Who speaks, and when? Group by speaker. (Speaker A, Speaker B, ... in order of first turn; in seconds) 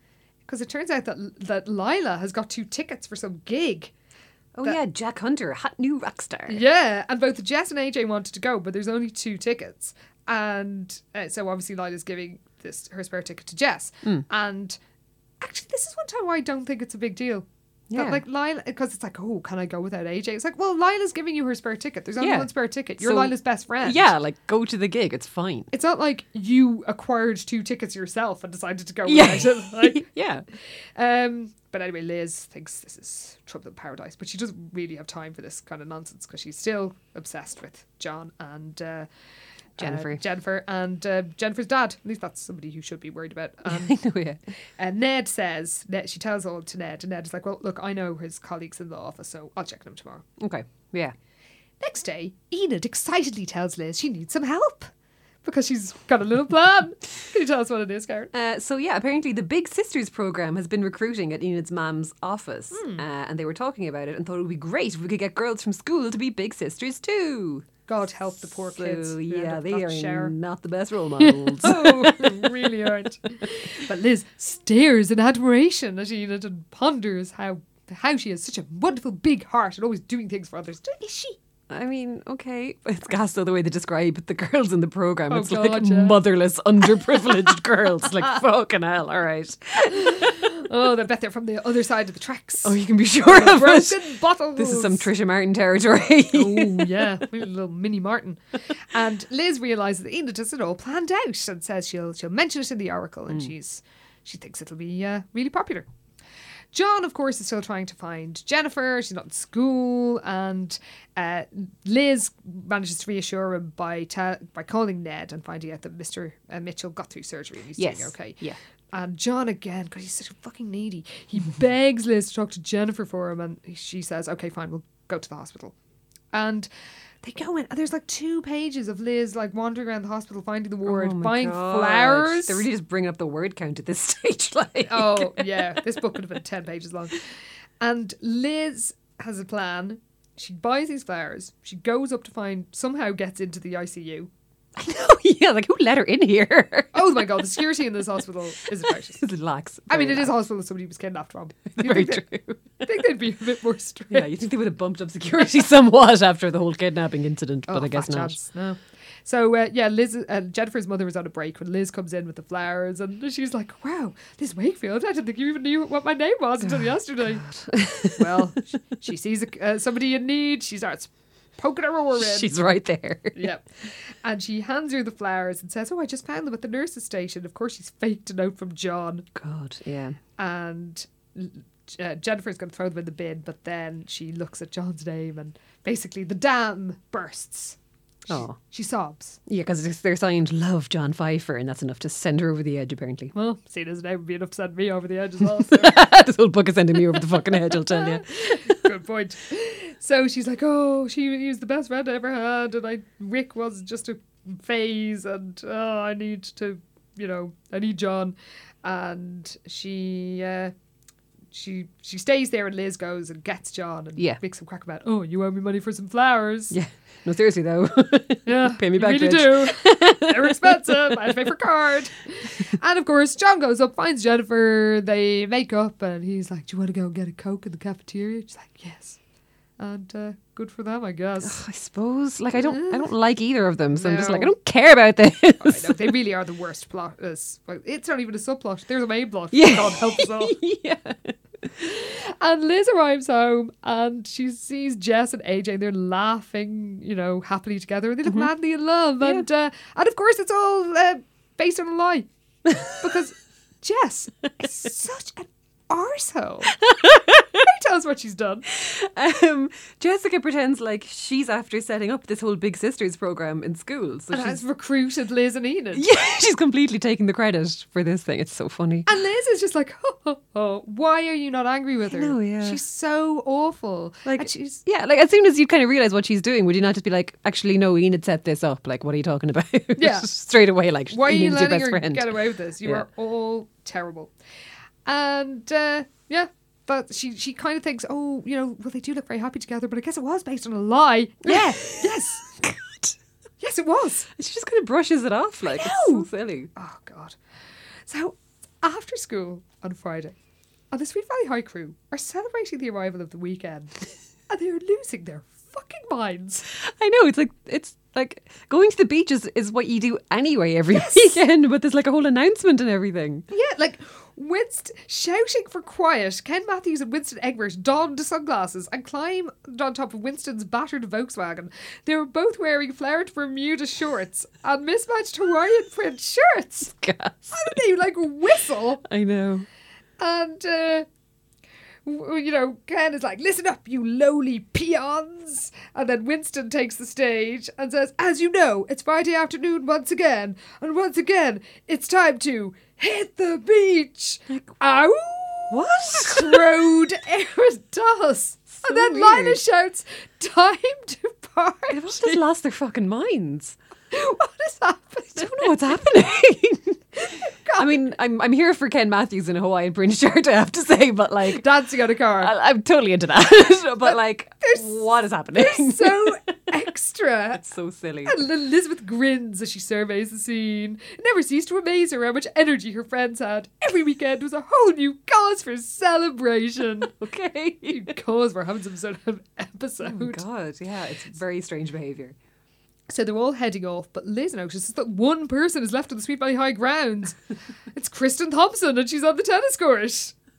Speaker A: 0.5-3.9, 6.5-14.8, 15.4-24.1, 25.7-30.1, 30.9-39.1, 39.8-44.0, 44.8-50.2, 51.8-54.9, 55.4-58.3, 62.7-63.0, 67.9-70.3, 71.2-81.4, 85.3-86.2, 90.0-95.1, 96.3-105.9, 106.7-118.4, 118.9-125.8, 126.3-126.7, 127.2-132.6, 134.8-137.2, 137.8-144.3, 146.9-149.2, 149.9-152.2, 152.8-154.3, 157.7-167.4, 168.2-172.5, 173.3-179.2, 180.4-189.4, 193.3-196.0, 197.9-210.7, 211.5-216.7, 218.5-229.2, 229.8-231.6, 232.6-233.1, 234.0-234.5, 235.6-240.5, 241.8-252.3, 252.8-256.7, 257.6-258.6, 264.3-266.1, 269.1-274.8, 280.0-280.3, 281.1-284.3, 285.0-292.4, 293.6-294.3, 295.6-297.4, 298.1-300.3, 300.9-306.7, 310.9-311.4, 313.5-326.9, 327.5-329.0, 330.2-331.1, 332.0-352.4, 354.1-355.8, 357.2-358.0, 361.5-362.5, 364.0-365.0, 365.5-367.6, 368.2-377.1, 377.9-380.4, 383.1-387.4, 387.9-390.3
Speaker B: 4.5-6.6, 17.9-18.2, 22.2-25.7, 29.1-30.4, 39.8-40.2, 43.7-44.4, 50.4-51.1, 58.3-67.7, 68.7-72.7, 81.7-90.5, 92.6-97.1, 117.8-118.6, 130.8-135.5, 144.8-147.2, 149.2-150.3, 151.7-152.6, 154.1-158.4, 166.8-168.5, 172.2-173.5, 179.3-180.2, 188.3-188.6, 189.5-193.3, 195.7-198.8, 216.7-220.8, 231.4-236.1, 239.5-241.3, 256.8-257.6, 258.7-264.6, 265.9-269.1, 272.1-272.8, 274.2-283.0, 291.5-293.1, 294.4-296.7, 306.8-313.4, 326.9-327.8, 329.0-329.6, 345.7-346.8, 348.8-349.6, 351.9-353.8, 355.4-357.0, 357.8-361.6, 362.4-366.5, 367.6-368.4, 377.1-378.1, 380.0-382.4